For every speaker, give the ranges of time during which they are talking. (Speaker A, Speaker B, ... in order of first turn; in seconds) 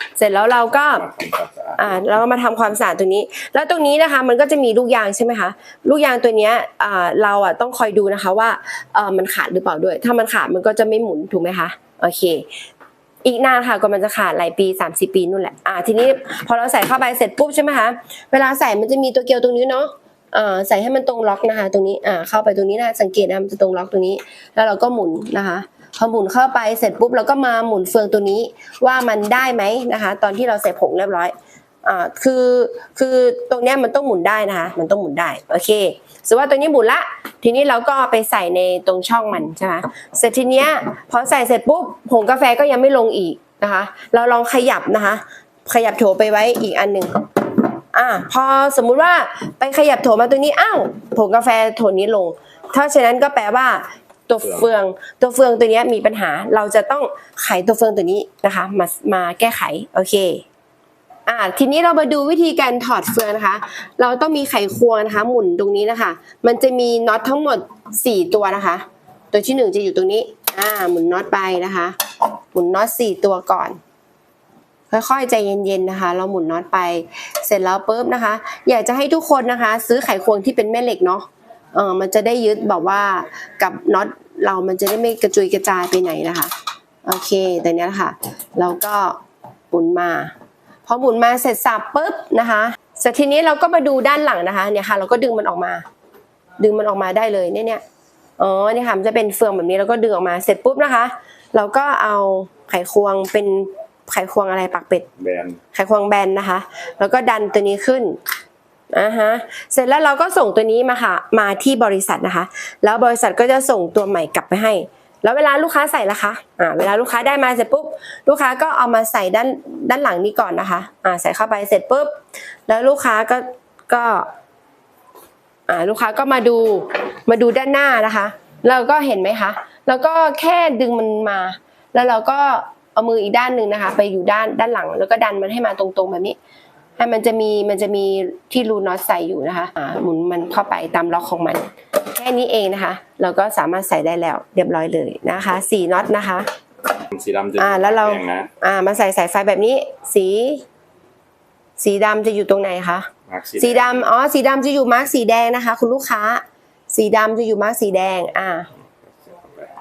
Speaker A: 0.2-1.1, 1.8-12.5, 13.2-60.4, 61.3-72.0, 72.5-73.8, 74.9-86.5, 87.0-89.2, 89.7-90.3, 90.8-95.8, 96.6-97.8, 98.4-105.1, 105.7-108.2, 108.9-122.1, 122.7-124.3, 125.7-136.4, 137.0-146.5, 147.6-150.6, 151.8-158.7
Speaker B: 0.9-1.8, 54.4-54.7, 105.2-105.6, 147.1-148.5, 153.3-154.1, 159.2-159.7